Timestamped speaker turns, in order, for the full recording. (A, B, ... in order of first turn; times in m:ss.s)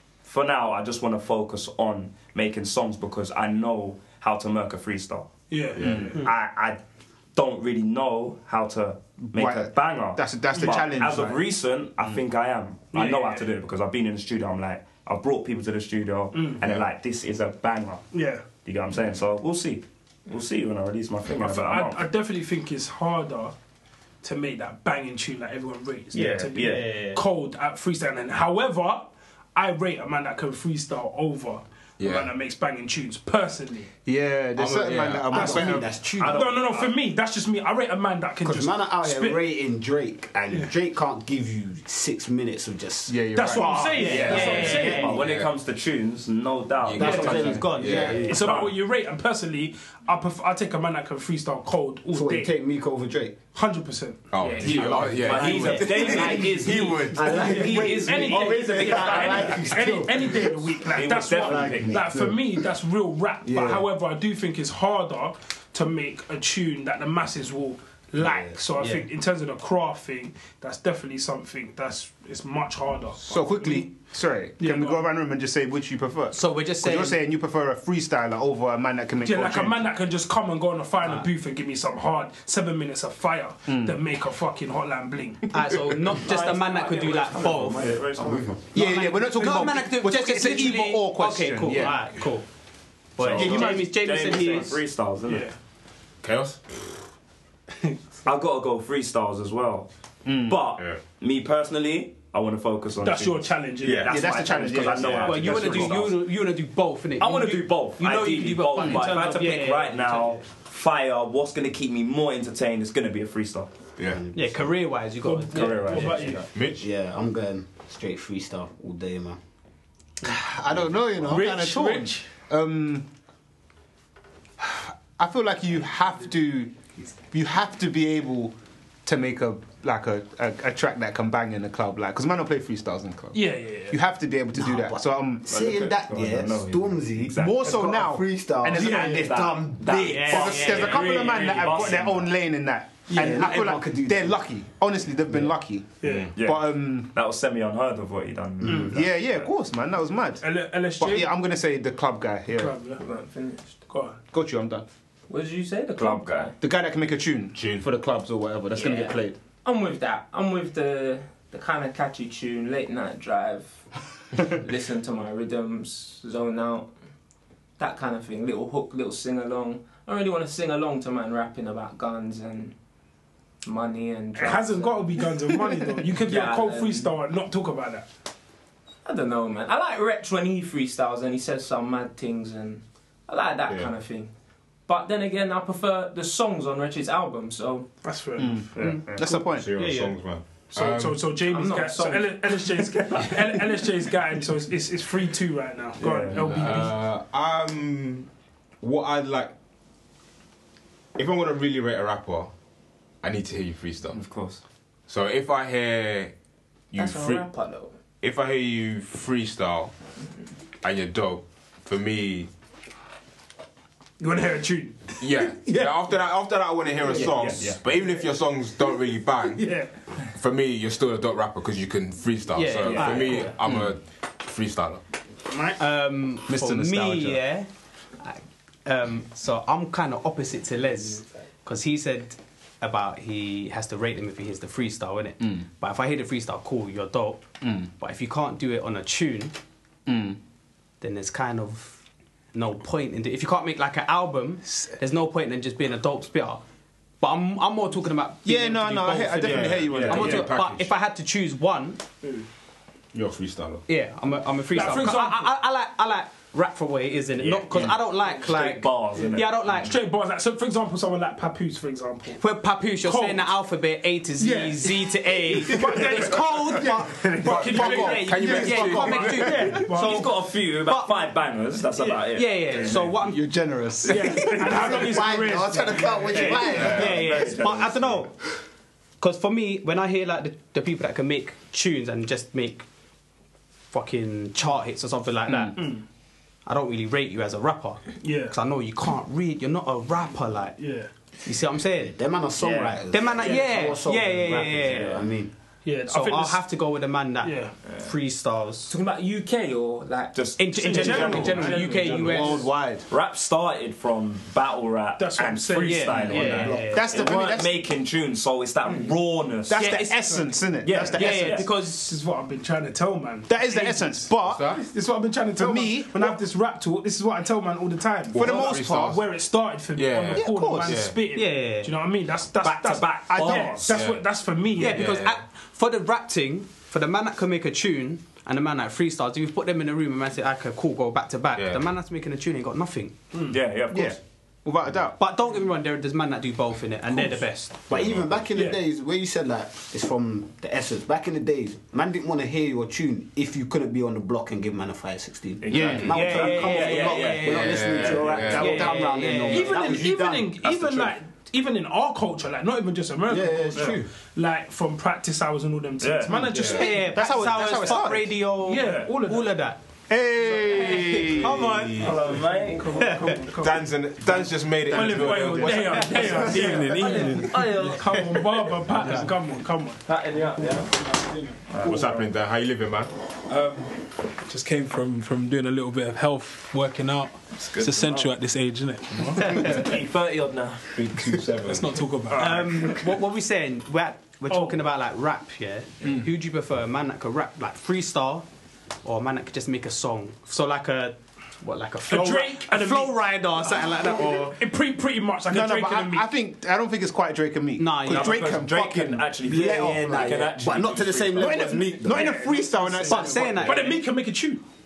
0:00.2-0:05.3 A
0:05.5-0:06.3 B
0:05.8-0:06.1 C
0:05.8-0:06.6 D
0:06.1-0:06.8 A
0:07.3-0:18.1 A
0:09.3-0:11.4 D
0:12.9-0:13.5 B
0:16.3-0:16.6 B
0:18.1-0:18.4 B
0:18.6-0:22.1 A
0:21.3-0:23.5 B
0:24.2-0:33.9 B
0:26.1-0:27.2 E
0:26.2-0:26.8 A
0:32.0-0:32.3 C
0:34.0-0:35.9 D
0:34.6-0:35.5 C
0:35.3-0:36.7 F
0:35.3-0:39.4 B
0:36.2-0:36.9 A
0:38.4-0:45.1 F
0:43.1-0:44.6 D
0:43.3-0:45.1 B
0:43.6-0:45.1 E
0:44.0-0:48.6 A
0:45.0-0:45.5 C
0:46.8-0:48.4 C
0:47.0-0:48.7 F
0:47.0-0:47.4 B
0:47.3-0:48.4 E
0:48.2-0:52.5 B
0:52.1-0:53.4 F
0:53.5-0:54.3 B
0:54.3-0:57.3 C
0:54.4-0:54.8 G
0:54.6-0:59.9 A
0:54.8-1:00.8 F
0:55.5-0:55.8 E
0:57.2-1:13.9 B
1:00.9-1:02.1 A
1:01.4-1:02.3 F
1:03.4-1:03.8 D
1:08.2-1:08.6 F
1:08.8-1:09.0 E
1:13.2-1:19.9 D
1:14.6-1:15.1 B
1:16.3-1:17.2 E
1:19.2-1:25.5 B
1:23.7-1:24.0 D
1:25.5-1:28.0 E
1:26.2-1:28.6 A
1:28.7-1:32.1 D
1:28.7-1:32.4 E
1:33.2-1:34.8 E
1:33.2-1:35.5 A
1:33.3-1:33.9 D
1:35.2-1:35.6 B
1:36.2-1:37.0 C
1:38.2-1:39.9 A
1:40.2-1:40.6 D
1:40.4-1:46.2 A
1:43.0-1:44.4 B
1:43.8-1:44.2 C
1:44.1-1:46.0 D
1:45.0-1:45.3 C
1:45.2-1:50.4 E
1:47.2-1:53.7 A
1:54.0-1:54.2 C
1:54.1-1:54.6 F
1:54.3-1:56.3 E
1:55.2-1:56.5 B
1:55.5-1:56.4 A
1:56.5-1:56.9 C
1:56.8-1:59.4 F
2:00.2-2:03.1 D
2:01.3-2:02.3 B
2:04.6-2:15.5 D
2:13.3-2:14.0 B
2:14.5-2:20.6 F
2:15.5-2:17.8 A
2:17.4-2:27.1 D
2:18.7-2:22.3 A
2:18.8-2:19.3 B
2:20.1-2:20.9 E
2:23.1-2:23.5 B
2:23.1-2:24.4 F
2:26.0-2:26.3 B
2:26.0-2:26.3 C
2:26.3-2:29.5 A
2:28.6-2:28.9 B
2:28.9-2:32.8 D
2:30.4-2:31.3 B
2:32.5-2:33.0 B
2:32.9-2:33.8 G
2:33.9-2:34.2 B
2:34.3-2:34.8 D
2:35.3-2:36.5 G
2:36.0-2:36.5 A
2:36.6-2:39.4 D
2:37.5-2:37.9 C
2:38.7-2:43.8 G
2:44.6-2:46.9 G
2:47.8-2:52.8 G
2:53.6-2:55.2 G
2:54.3-2:58.1 B
2:56.2-2:57.1 G
2:59.0-3:04.3 G
3:03.7-3:03.9 C
3:04.8-3:07.9 G
3:08.0-3:09.0 B
3:08.4-3:09.7 D
3:08.8-3:09.2 A
3:08.8-3:10.2 E
3:09.5-3:11.3 C
3:10.7-3:17.0 B
3:11.4-3:13.1 G
3:16.0-3:16.8 A
3:16.3-3:18.3 C
3:18.8-3:19.5 C
3:21.2-3:22.5 C
3:23.2-3:24.2 C
3:24.1-3:24.6 A
3:25.1-3:26.3 C
3:26.9-3:27.5 C
3:27.0-3:27.9 G
3:28.2-3:29.9 C
3:30.8-3:32.5 C
3:34.2-3:36.1 B
3:35.2-3:39.7 C
3:37.0-3:37.3 B
3:37.1-3:37.8 A
3:39.5-3:39.9 B
3:40.3-3:45.0 C
3:42.5-3:43.5 E
3:42.8-3:43.5 A
3:45.5-3:45.8 B
3:45.8-3:47.7 E
3:46.5-3:47.4 D
3:48.2-3:59.5 E
3:57.6-3:57.9 D
4:00.0-4:00.4 D
4:01.0-4:06.6 E
4:07.2-4:12.0 E
4:08.4-4:10.5 D
4:09.4-4:10.9 C
4:13.1-4:13.8 C
4:13.9-4:19.9 E
4:14.7-4:15.5 B
4:17.4-4:19.8 A
4:19.8-4:22.4 B
4:22.4-4:31.3 E
4:23.0-4:23.5 B
4:24.4-4:26.9 B
4:25.8-4:29.8 D
4:27.4-4:29.8 C
4:27.4-4:30.3 B
4:29.9-4:33.1 A
4:32.2-4:34.9 E
4:33.1-4:35.2 D
4:34.0-4:36.8 B
4:34.7-4:37.2 F
4:36.3-4:38.2 A
4:36.7-4:37.3 C
4:36.7-4:38.3 E
4:39.2-4:42.8 E
4:43.9-4:46.0 E
4:45.8-4:46.0 B
4:46.6-4:50.8 E
4:48.2-4:48.6 B
4:50.8-4:51.1 B
4:51.4-4:52.2 E
4:52.0-4:55.5 F
4:52.6-4:53.5 A
4:53.1-4:55.2 E
4:55.8-4:56.6 B
4:56.1-4:58.9 E
4:57.4-4:57.8 B
4:58.9-5:00.4 G
5:00.3-5:01.9 A
5:00.6-5:02.7 E
5:00.8-5:02.6 B
5:01.7-5:02.1 G
5:02.2-5:03.1 D
5:03.1-5:09.8 A
5:05.2-5:06.7 B
5:05.8-5:07.1 E
5:06.5-5:07.0 F
5:06.8-5:07.8 D
5:08.8-5:09.2 G
5:09.7-5:11.6 D
5:09.7-5:10.5 E
5:09.8-5:10.5 B
5:10.8-5:11.6 A
5:11.0-5:25.1 B
5:11.1-5:12.1 E
5:13.5-5:14.7 D
5:14.5-5:14.7 C
5:15.6-5:16.4 D
5:18.3-5:19.2 C
5:18.3-5:19.2 D
5:19.9-5:21.2 C
5:20.3-5:21.1 D
5:21.3-5:21.9 E
5:22.6-5:24.0 A
5:23.3-5:24.0 D
5:23.9-5:24.2 C
5:24.8-5:33.2 E
5:24.8-5:25.4 C
5:31.6-5:31.9 C
5:33.3-5:33.6 B
5:33.5-5:34.2 A
5:33.9-5:35.2 D
5:35.2-5:37.8 E
5:37.9-5:50.5 F
5:37.9-5:38.4 C
5:45.6-5:48.5 A
5:45.7-5:46.6 D
5:45.8-5:50.0 E
5:47.4-5:48.8 C
5:48.6-5:49.4 D
5:49.5-5:57.2 B
5:50.6-5:51.1 A
5:53.3-5:54.1 F
5:56.0-5:56.6 A
5:56.3-5:58.3 D
5:56.5-5:56.8 C
5:56.6-5:59.8 E
5:58.6-5:59.6 B
6:00.1-6:01.6 D
6:00.7-6:01.1 B
6:00.8-6:02.1 E
6:01.5-6:02.2 C
6:02.0-6:03.2 A
6:02.0-6:10.0 B
6:03.0-6:03.3 E
6:03.5-6:06.6 C
6:06.2-6:06.7 D
6:06.4-6:08.2 A
6:06.5-6:07.6 H
6:07.6-6:07.9 G
6:10.1-6:10.9 A
6:10.9-6:11.6 H
6:11.7-6:12.3 A
6:11.8-6:13.1 C
6:13.5-6:19.8 H
6:17.6-6:18.3 A
6:19.5-6:20.2 A
6:19.8-6:20.8 G
6:20.9-6:22.4 C
6:21.6-6:22.6 H
6:22.3-6:22.8 A
6:22.3-6:28.4 E
6:24.5-6:24.8 B
6:29.0-6:34.6 E
6:32.0-6:36.3 B
6:35.5-6:40.2 D
6:37.8-6:38.5 E
6:38.1-6:41.7 A
6:39.4-6:42.3 F
6:41.4-6:44.0 D
6:42.0-6:44.6 B
6:43.0-6:44.0 E